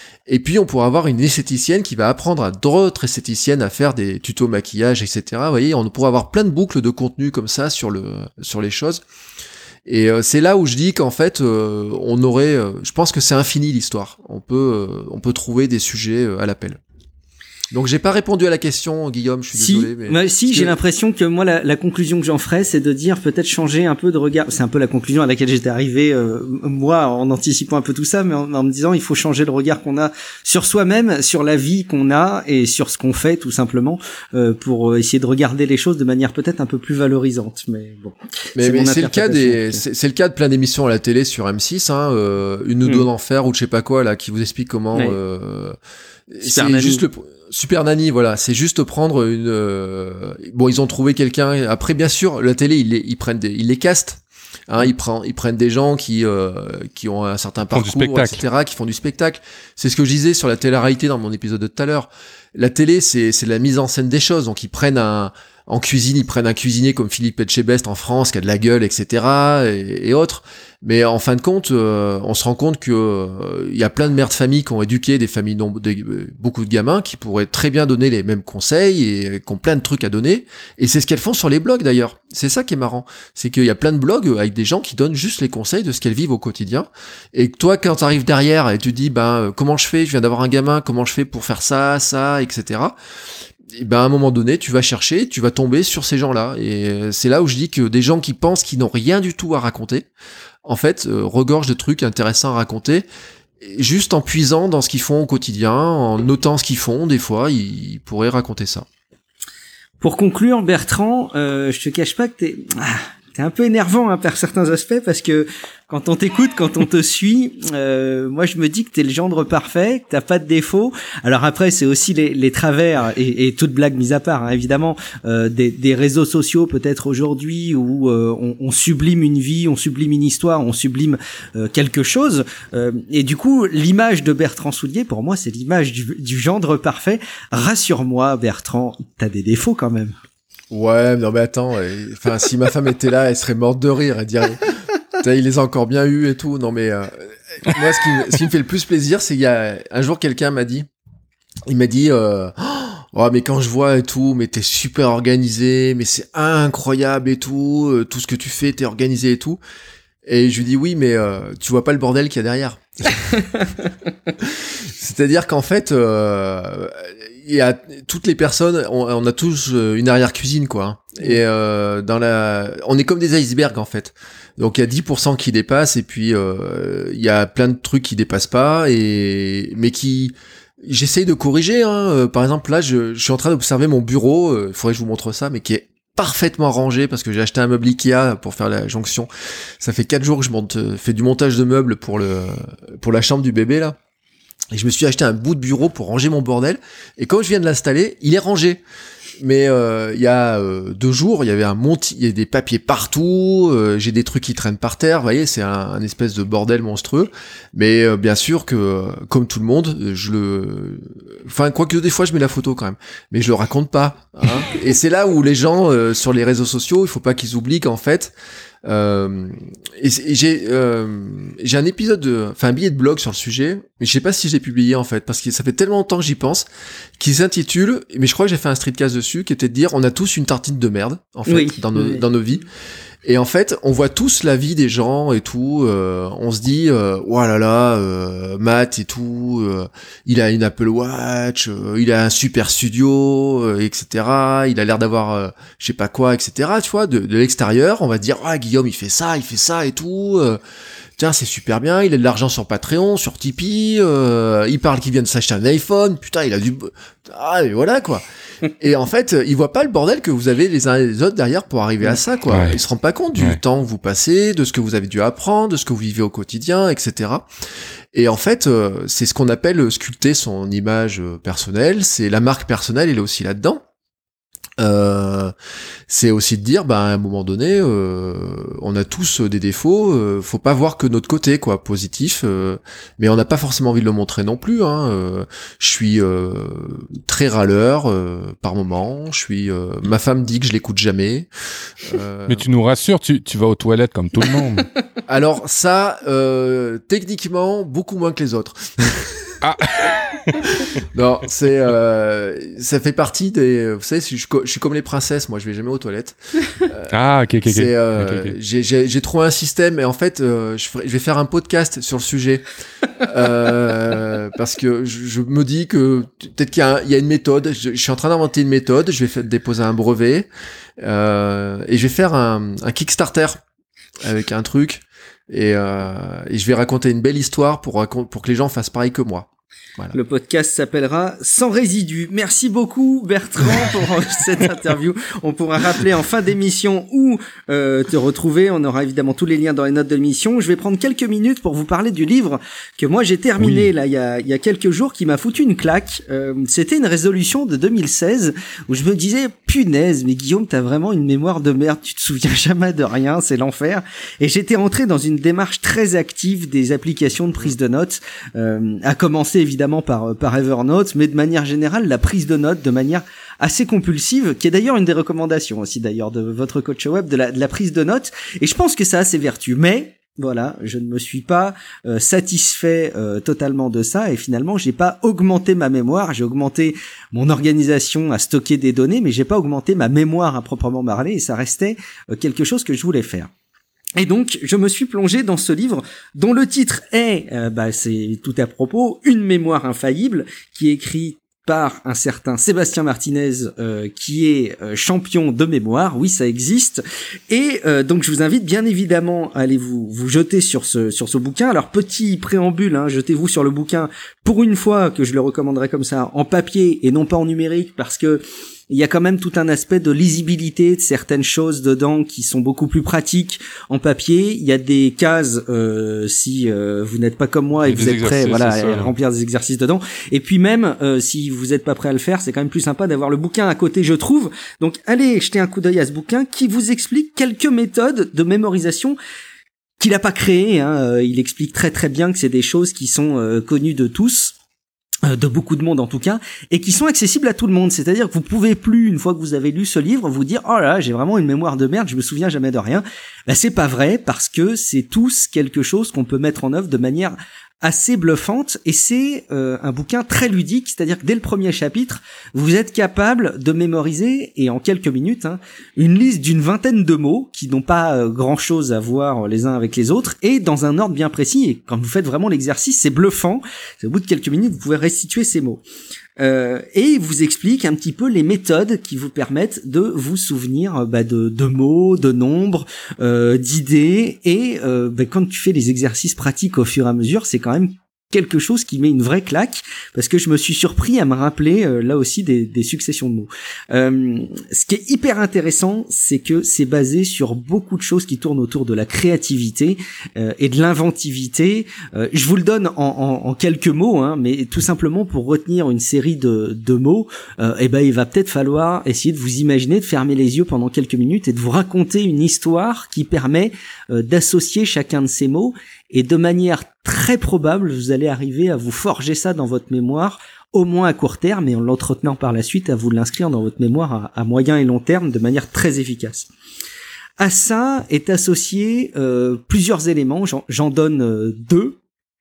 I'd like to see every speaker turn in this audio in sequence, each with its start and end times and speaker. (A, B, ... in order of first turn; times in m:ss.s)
0:00.3-0:09.0 A
0:09.8-0:16.8 A
0:17.7-0:20.7 A
0:19.5-0:39.8 B
0:38.6-0:45.8 A
0:46.3-1:32.9 A
0:46.4-0:47.0 B
0:57.7-0:58.4 C
1:33.7-1:40.1 A
1:40.6-1:43.0 A
1:43.6-1:48.8 A
1:50.0-2:20.1 B
2:20.7-2:30.9 A
2:31.7-2:39.6 A
2:40.2-2:43.2 A
2:44.4-3:09.3 A
3:09.8-3:14.0 A
3:14.7-3:18.8 A
3:19.4-3:38.3 A
3:38.8-3:46.6 A
3:47.2-3:52.6 A
3:51.4-3:52.2 B
3:53.2-4:10.6 A
4:11.2-4:18.2 A
4:18.7-4:27.5 A
4:22.5-4:22.8 C
4:28.1-4:33.8 A
4:34.8-4:35.5 A
4:36.1-4:51.5 A
4:52.0-4:52.6 A
4:52.5-4:54.9 C
4:55.3-4:59.6 A
4:59.6-5:00.8 C
5:01.0-5:07.1 A
5:07.1-5:08.5 C
5:07.6-5:12.6 A
5:13.2-5:20.5 A
5:21.0-5:23.6 A
5:24.2-5:30.2 A
5:30.1-6:23.5 B
5:43.6-5:43.9 C
6:24.2-7:09.2 B
6:57.8-6:59.1 C
7:10.0-7:14.5 B
7:15.2-7:45.8 B
7:46.4-8:36.5 B
8:37.4-8:42.0 B